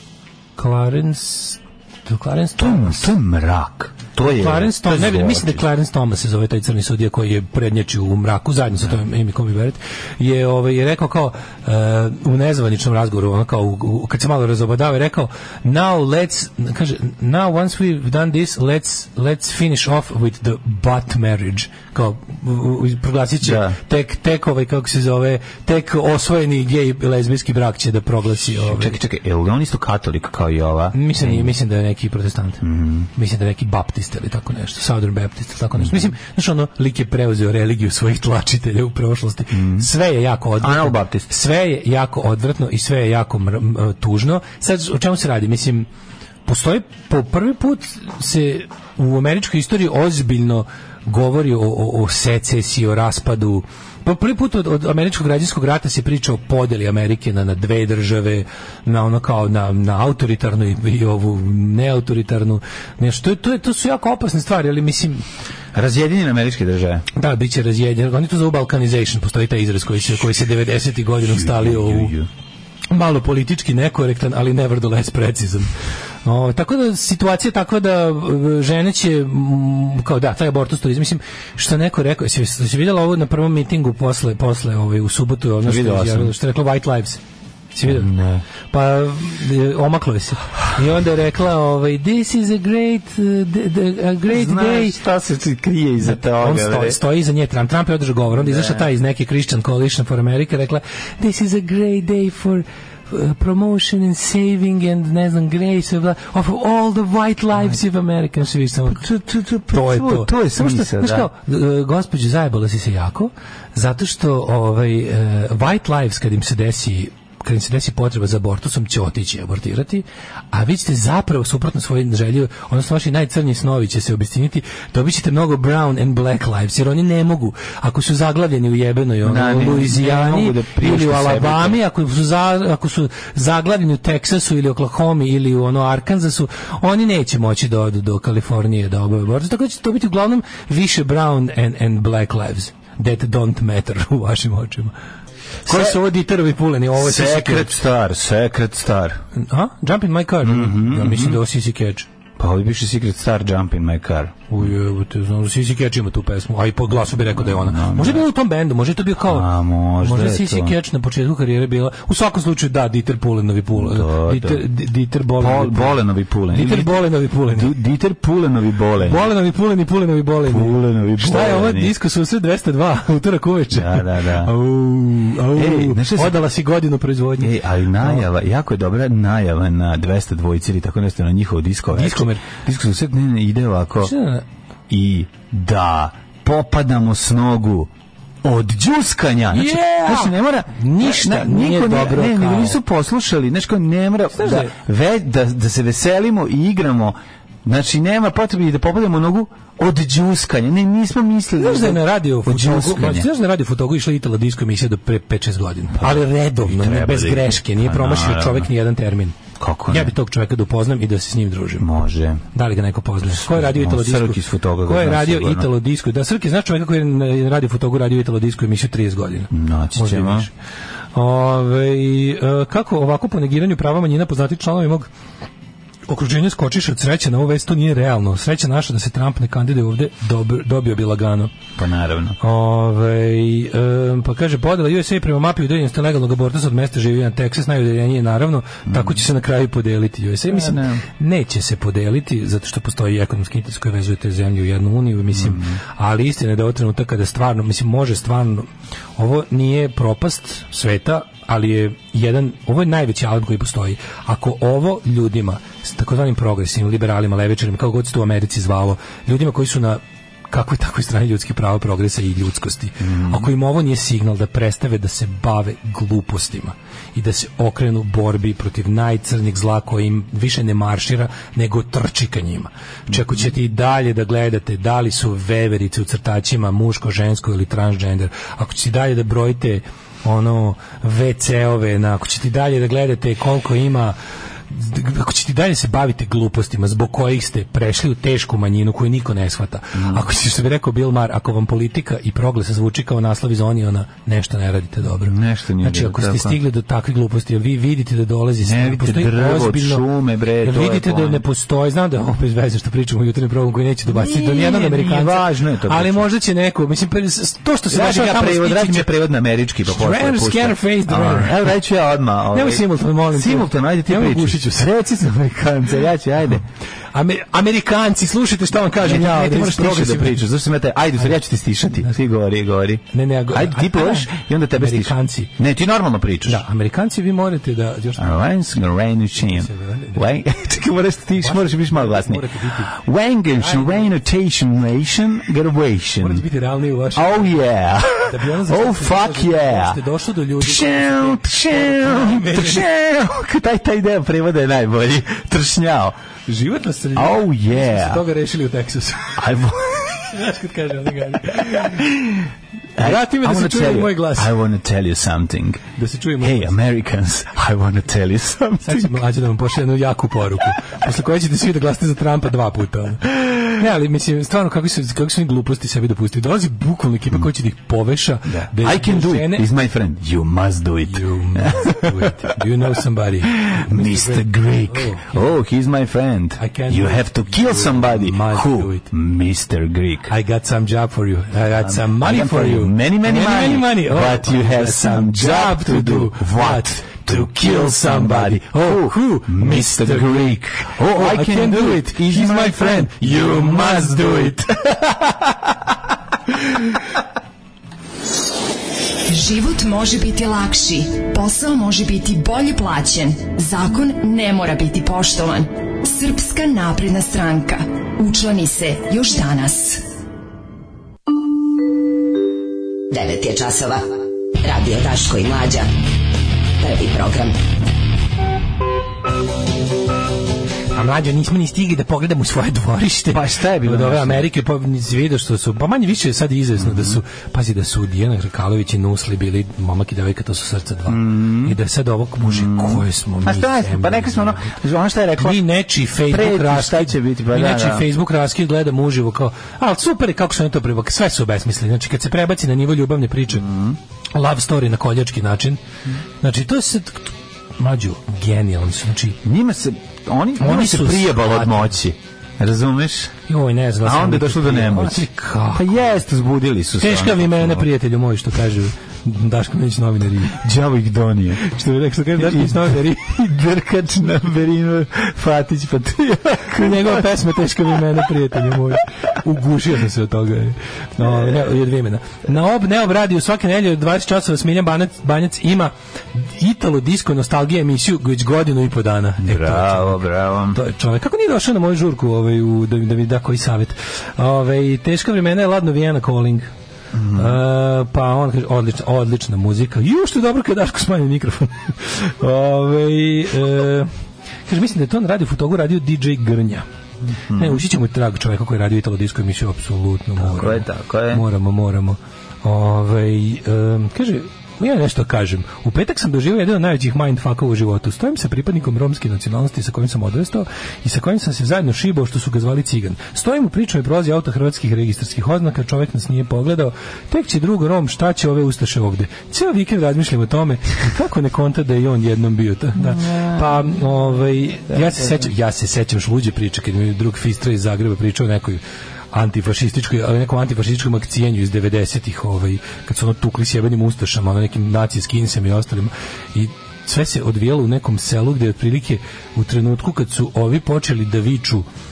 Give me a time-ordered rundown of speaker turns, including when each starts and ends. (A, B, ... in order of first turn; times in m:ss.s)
0:00.6-0:03.1 A
0:02.6-0:05.6 B
0:04.2-0:29.0 A
0:23.4-0:23.8 B
0:28.6-0:31.5 B
0:30.9-0:32.6 A
0:32.6-0:33.1 B
0:33.1-0:45.9 A
0:35.8-0:36.1 B
0:39.5-0:39.9 B
0:40.6-0:41.3 B
0:46.4-1:05.2 A
1:05.7-1:07.1 B
1:07.2-1:12.1 A
1:11.2-1:12.3 B
1:12.9-1:15.7 A
1:16.2-1:27.2 A
1:25.6-1:26.3 B
1:27.7-1:28.1 A
1:27.8-1:28.4 B
1:28.7-1:35.0 A
1:34.3-1:37.0 B
1:36.0-1:49.1 A
1:38.4-1:38.9 B
1:48.9-1:51.3 B
1:49.7-2:24.9 A
2:09.2-2:11.8 B
2:25.7-2:27.8 A
2:25.7-2:26.0 B
2:27.0-2:29.2 B
2:29.4-2:32.1 A
2:30.4-2:31.4 B
2:32.4-2:34.6 B
2:34.5-2:46.0 A
2:37.3-2:38.2 B
2:39.2-2:40.8 B
2:43.7-2:44.7 B
2:45.4-2:49.3 B
2:46.5-2:47.7 A
2:49.0-2:58.2 A
2:50.5-2:51.9 B
2:53.7-2:54.5 B
2:55.5-2:56.4 B
2:57.4-3:04.1 B
3:01.9-3:02.4 A
3:04.0-3:04.4 A
3:04.9-3:07.9 B
3:08.4-3:23.3 B
3:09.5-3:12.8 A
3:14.4-3:14.8 A
3:21.6-3:29.4 A
3:26.0-3:28.7 B
3:29.6-3:30.1 B
3:29.9-3:31.9 A
3:31.8-3:32.4 B
3:32.5-3:40.5 A
3:33.2-3:35.7 B
3:39.5-3:40.5 B
3:41.2-3:45.1 A
3:46.1-3:51.5 A
3:51.8-3:52.4 B
3:52.4-4:44.2 A
3:58.9-3:59.2 B
4:00.5-4:01.0 B
4:05.3-4:05.8 B
4:23.0-4:23.5 B
4:33.1-4:33.4 B
4:44.7-5:00.0 A
4:50.0-4:50.2 B
4:55.2-4:56.6 B
4:58.6-5:01.4 B
5:00.6-5:09.1 A
5:04.1-5:06.3 B
5:07.9-5:16.6 B
5:09.9-5:11.7 A
5:12.5-5:14.9 A
5:17.1-5:20.4 A
5:19.0-5:26.6 B
5:23.1-5:25.5 A
5:26.4-5:28.3 A
5:28.2-5:36.4 B
5:29.4-5:30.2 A
5:31.4-5:32.9 A
5:33.5-5:34.1 A
5:36.2-5:37.6 A
5:37.2-5:40.0 B
5:38.2-5:42.9 A
5:40.6-5:46.2 B
5:46.4-5:49.4 A
5:47.2-5:48.2 B
5:49.4-5:50.3 B
5:50.3-5:52.1 A
5:51.6-5:52.3 B
5:53.0-5:55.8 B
5:53.0-5:54.5 A
5:56.0-5:56.8 A
5:56.4-5:59.2 B
5:58.8-6:09.7 A
6:08.5-6:12.6 B
6:11.1-6:15.4 A
6:13.5-6:20.3 B
6:16.6-6:19.1 A
6:20.3-6:35.3 A
6:21.8-6:34.7 B
6:39.3-6:50.0 C
6:53.1-6:54.1 D
6:54.6-6:55.9 D
6:56.8-6:57.6 D
7:00.9-7:14.8 A
7:03.3-7:04.5 B
7:06.8-7:07.2 B
7:11.1-7:11.8 B
7:12.4-7:15.6 B
7:15.4-7:23.7 A
7:16.2-7:18.1 B
7:23.6-7:24.0 B
7:24.3-7:25.8 A
7:26.4-7:29.4 A
7:29.4-7:33.3 B
7:30.6-7:32.0 A
7:33.5-7:35.9 A
7:34.0-7:37.9 B
7:37.0-7:40.6 A
7:40.6-7:41.6 B
7:41.6-7:43.6 A
7:42.4-7:47.3 B
7:46.7-8:06.7 A
7:51.2-7:51.6 B
7:59.4-8:00.8 B
8:07.1-8:07.6 B
8:07.3-8:14.1 A
8:14.7-8:16.8 A
8:17.5-8:17.8 B
8:17.5-8:48.8 A
8:20.4-8:21.4 B
8:43.0-8:44.0 B
8:49.3-9:01.9 A